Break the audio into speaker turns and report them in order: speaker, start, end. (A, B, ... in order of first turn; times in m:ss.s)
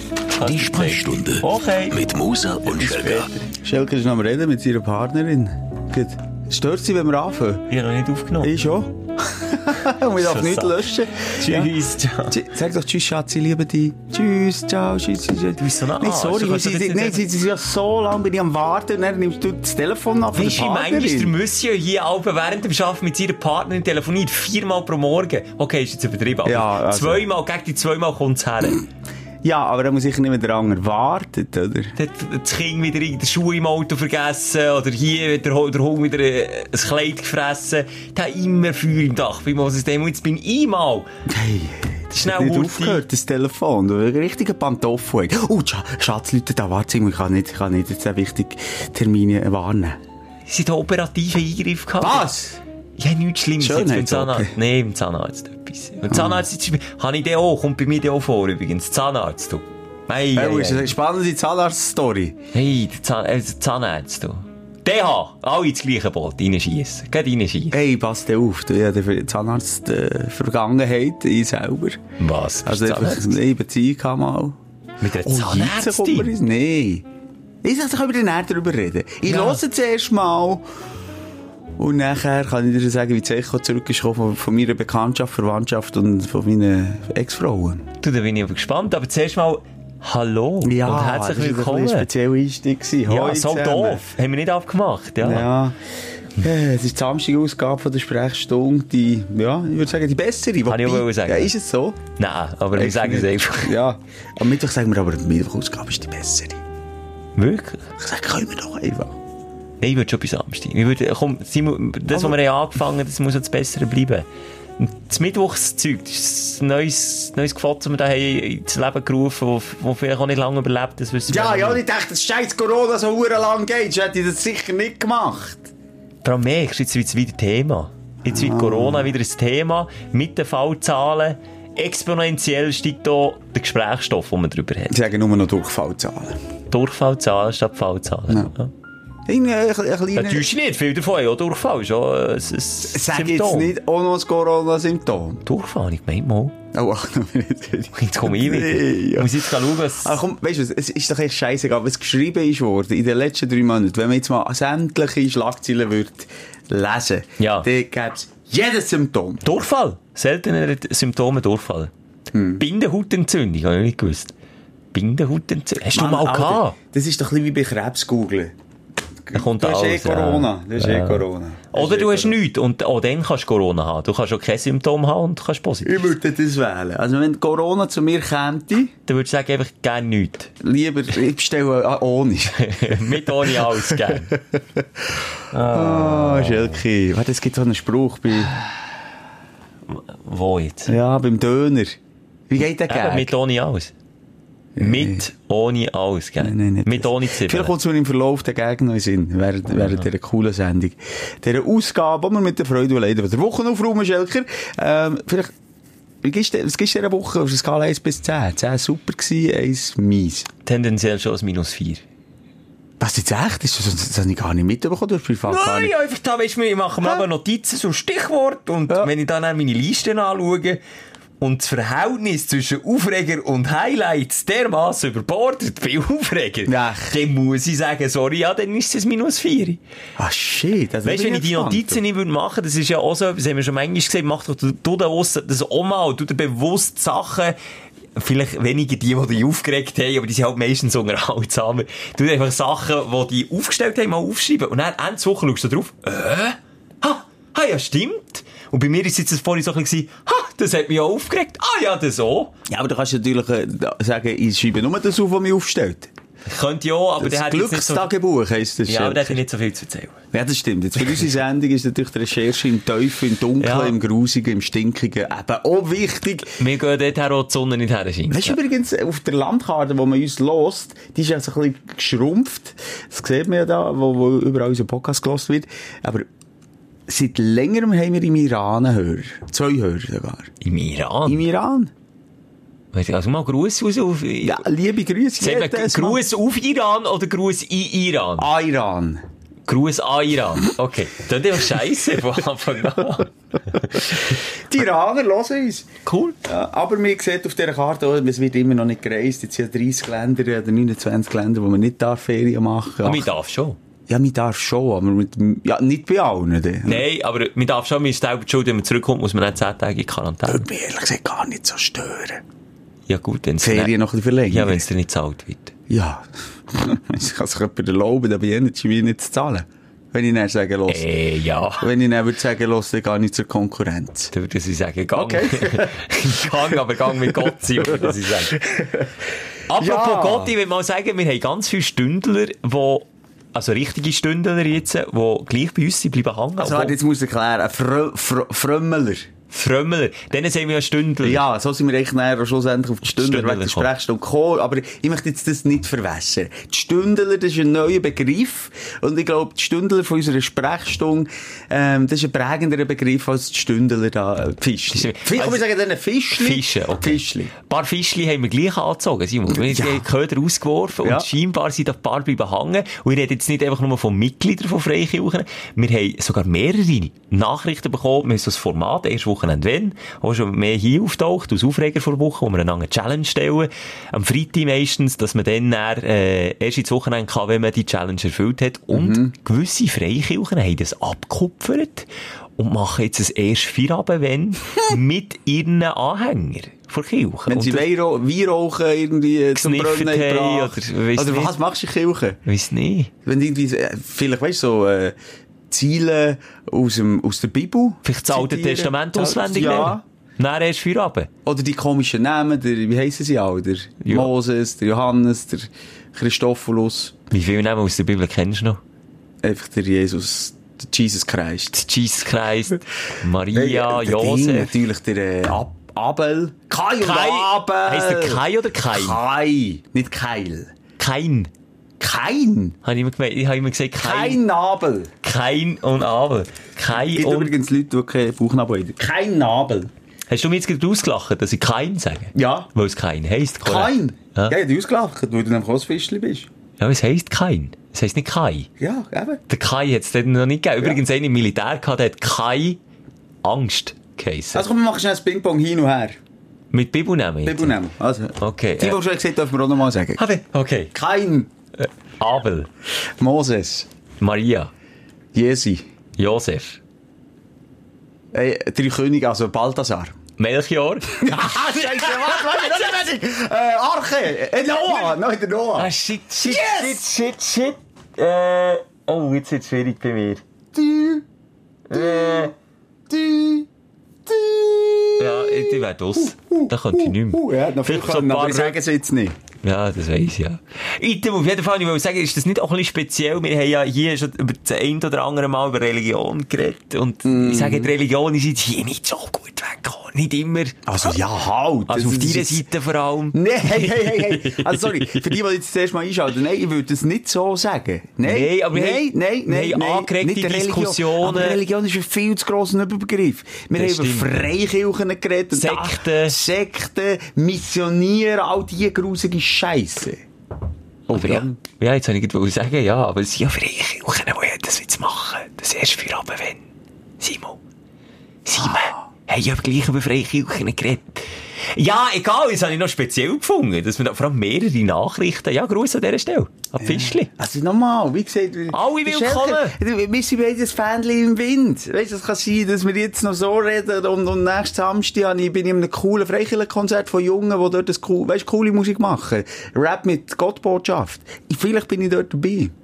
0:00.3-0:02.0 A
0:00.4-0:03.3 B
0:02.7-0:07.7 C
0:07.7-0:08.5 A
0:08.4-0:11.7 C
0:10.2-0:10.8 A
0:11.3-0:12.4 A
0:12.3-0:21.3 C
0:15.6-0:17.2 A
0:20.3-0:28.8 A
0:26.4-0:27.2 C
0:29.4-0:32.0 C
0:32.0-0:41.1 A
0:41.3-0:50.0 C
0:42.1-0:43.0 A
0:50.5-0:52.3 A
0:52.0-0:52.6 C
0:53.0-1:00.9 A
0:53.6-0:54.5 C
0:56.1-0:56.4 C
1:00.3-1:02.4 C
1:02.5-1:07.8 A
1:07.7-1:12.0 C
1:12.2-1:13.4 A
1:12.6-1:14.6 C
1:15.0-1:16.3 A
1:15.2-1:17.1 C
1:17.6-1:20.6 C
1:19.2-1:19.6 A
1:21.8-1:27.9 C
1:28.0-1:32.1 A
1:30.6-1:34.0 C
1:33.1-1:35.5 A
1:35.2-1:35.8 C
1:36.4-1:42.0 C
1:40.7-1:41.5 A
1:42.2-1:43.8 A
1:42.7-1:46.6 C
1:47.4-1:47.8 A
1:48.0-1:49.2 C
1:49.8-1:54.3 A
1:54.8-2:01.8 A
2:01.3-2:05.7 C
2:06.2-2:15.0 A
2:08.3-2:09.1 C
2:14.9-2:16.4 C
2:16.7-2:18.7 A
2:19.3-2:20.5 C
2:20.1-2:23.7 A
2:22.9-2:25.4 C
2:25.4-2:26.6 A
2:26.7-2:39.4 C
2:28.0-2:30.2 A
2:37.4-2:37.7 A
2:39.4-2:41.9 A
2:42.3-2:42.6 C
2:42.6-2:44.3 A
2:44.9-2:46.8 A
2:45.9-2:48.6 C
2:49.2-2:52.4 C
2:49.3-2:56.1 A
2:55.8-2:58.9 C
2:59.1-3:00.5 A
3:00.6-3:08.5 C
3:02.6-3:04.4 A
3:05.5-3:06.8 A
3:09.9-3:11.0 A
3:10.9-3:12.0 C
3:12.5-3:13.3 C
3:12.9-3:13.9 A
3:14.8-3:15.2 C
3:14.8-3:17.7 A
3:16.4-3:25.5 C
3:26.2-3:30.5 C
3:30.6-3:32.0 A
3:33.0-3:35.9 C
3:35.5-3:40.8 A
3:41.4-3:49.8 A
3:46.7-3:47.2 C
3:50.2-3:52.0 C
3:51.0-3:57.6 A
3:58.2-4:12.5 A
4:12.7-4:16.1 C
4:16.5-4:18.1 A
4:17.2-4:19.4 C
4:18.8-4:20.2 A
4:20.3-4:26.6 C
4:23.6-4:24.0 A
4:26.5-4:28.6 A
4:28.3-4:36.3 C
4:37.1-4:40.5 C
4:40.6-4:41.4 A
4:41.3-4:41.9 C
4:42.9-4:44.6 A
4:44.4-4:46.2 C
4:45.4-4:48.5 A
4:48.4-4:49.2 C
4:49.7-4:54.4 A
4:54.3-4:55.9 C
4:56.1-4:56.4 A
4:56.4-5:03.3 C
5:03.0-5:03.8 A
5:04.1-5:07.0 C
5:06.8-5:10.6 A
5:10.5-5:12.4 C
5:13.1-5:14.0 A
5:13.6-5:14.8 C
5:14.5-5:15.7 A
5:15.9-5:21.1 C
5:20.9-5:21.9 A
5:21.8-5:24.3 C
5:24.3-5:28.6 A
5:25.2-5:29.2 C
5:29.7-5:37.0 A
5:29.7-5:30.6 C
5:36.6-5:39.3 C
5:39.5-5:41.4 A
5:41.2-5:57.5 C
5:43.1-5:43.9 A
5:54.9-5:55.6 A
5:56.3-6:22.1 A
5:59.5-6:00.0 C
6:01.0-6:01.3 C
6:18.9-6:19.3 C
6:22.6-6:27.8 A
6:27.5-6:32.4 C
6:29.6-6:31.6 A
6:32.5-6:33.1 A
6:33.2-6:35.2 C
6:35.7-6:40.0 C
6:38.0-6:41.3 A
6:41.4-6:47.2 C
6:44.0-6:44.3 A
6:47.3-6:48.8 A
6:49.4-6:51.8 C
6:51.7-6:54.8 A
6:53.5-7:00.7 C
6:57.0-6:59.2 A
7:01.0-7:01.5 A
7:02.0-7:02.8 C
7:02.8-7:04.4 A
7:04.0-7:05.1 C
7:05.2-7:07.5 A
7:07.0-7:09.9 C
7:10.3-7:14.6 A
7:12.4-7:12.7 C
7:13.6-7:16.5 C
7:16.8-7:18.7 A
7:18.8-7:19.4 C
7:19.5-7:22.8 A
7:23.4-7:24.7 A
7:24.5-7:26.2 C
7:26.7-7:27.8 A
7:27.5-7:30.2 C
7:28.4-7:29.0 A
7:30.2-7:30.9 A
7:30.9-7:31.5 C
7:31.8-7:32.7 A
7:33.2-7:33.9 C
7:34.2-7:34.7 A
7:35.3-7:35.8 C
7:36.2-7:36.8 A
7:38.3-7:40.2 C
7:40.4-7:42.8 A
7:41.2-7:45.9 C
7:45.8-7:50.4 A
7:46.4-7:47.0 C
7:50.7-7:51.2 C
7:51.9-7:52.5 A
7:51.9-7:52.5 C
7:53.1-7:53.7 C
7:54.3-7:59.4 C
7:55.2-7:58.8 A
7:59.6-8:11.1 A
8:07.2-8:08.0 C
8:10.9-8:12.7 C
8:11.9-8:15.3 A
8:13.3-8:30.2 C
8:18.2-8:21.6 A
8:23.7-8:24.5 A
8:25.5-8:26.4 A
8:31.1-8:31.6 C
8:31.1-8:36.6 A
8:37.2-8:37.6 A
8:38.4-8:47.3 A
8:46.8-9:02.7 C
8:48.7-8:49.8 A